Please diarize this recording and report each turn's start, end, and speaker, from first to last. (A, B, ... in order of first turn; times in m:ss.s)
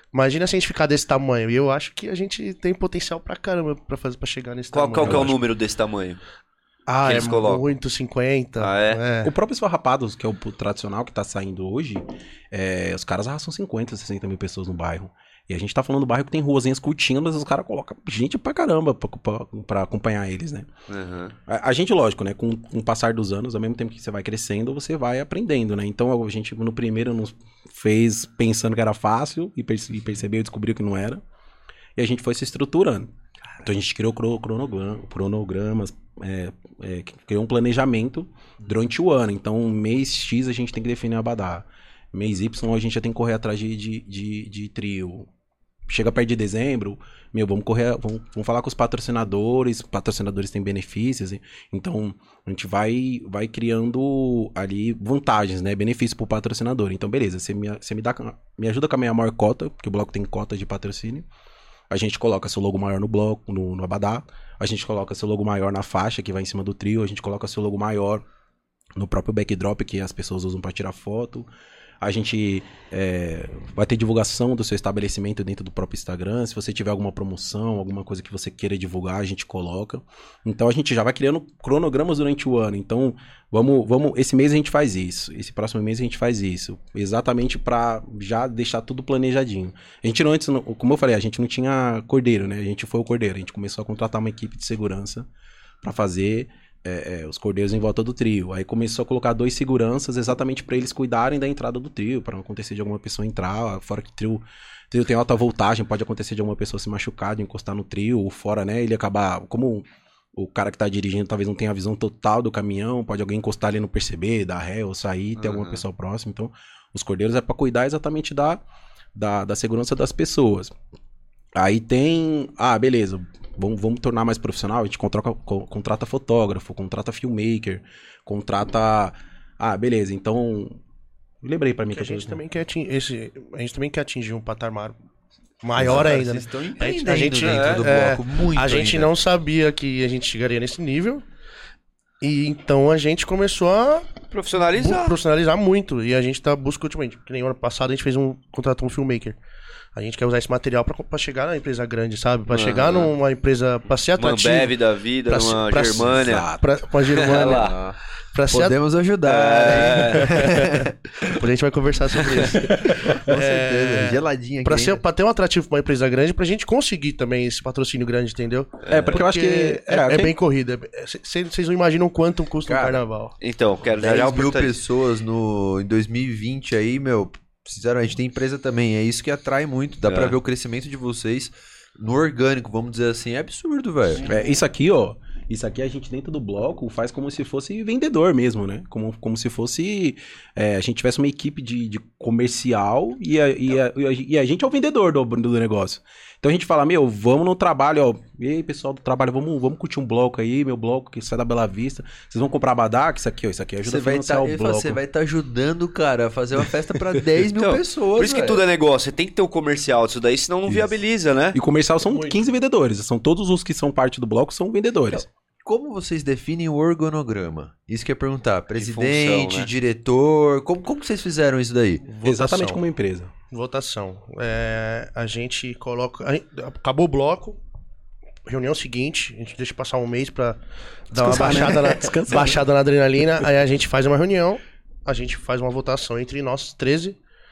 0:00.1-0:05.4 A
0:04.7-0:06.2 B
0:05.0-0:05.3 C
0:06.9-0:09.3 A
0:07.0-0:07.7 B
0:08.6-0:09.0 B
0:09.2-0:20.7 C
0:20.9-0:21.4 B
0:21.5-0:31.2 C
0:32.0-0:45.3 C
0:45.9-1:01.3 C
1:01.9-1:08.2 C
1:09.0-1:11.5 C
1:12.0-1:35.3 C
1:35.8-1:58.6 C
1:55.4-1:55.8 D
1:59.2-2:00.7 C
2:01.6-2:10.8 C
2:11.4-2:12.4 C
2:11.9-2:15.0 A
2:15.6-2:21.2 A
2:15.8-2:19.1 D
2:15.8-2:16.0 C
2:17.4-2:17.9 B
2:22.2-2:24.1 A
2:24.3-2:25.2 B
2:24.7-2:29.4 A
2:30.0-2:37.8 A
2:32.5-2:33.1 B
2:34.2-2:36.5 B
2:36.0-2:36.7 C
2:37.0-2:37.8 B
2:37.4-2:38.0 D
2:38.3-2:38.8 A
2:38.5-2:40.9 D
2:39.2-2:40.3 B
2:40.4-2:53.4 A
2:42.8-2:45.0 D
2:48.9-2:49.2 B
2:48.9-2:50.4 C
2:52.7-2:53.0 D
2:53.4-2:54.8 B
2:54.0-3:04.2 D
3:00.1-3:00.4 B
3:04.2-3:25.0 C
3:23.8-3:28.6 D
3:27.6-3:31.6 B
3:30.7-3:31.0 C
3:31.5-3:35.3 C
3:32.1-3:32.4 A
3:35.1-3:42.1 D
3:38.8-3:39.7 B
3:42.1-3:42.8 A
3:42.2-3:43.3 C
3:43.5-3:47.6 A
3:48.5-3:57.2 A
3:51.1-3:52.6 C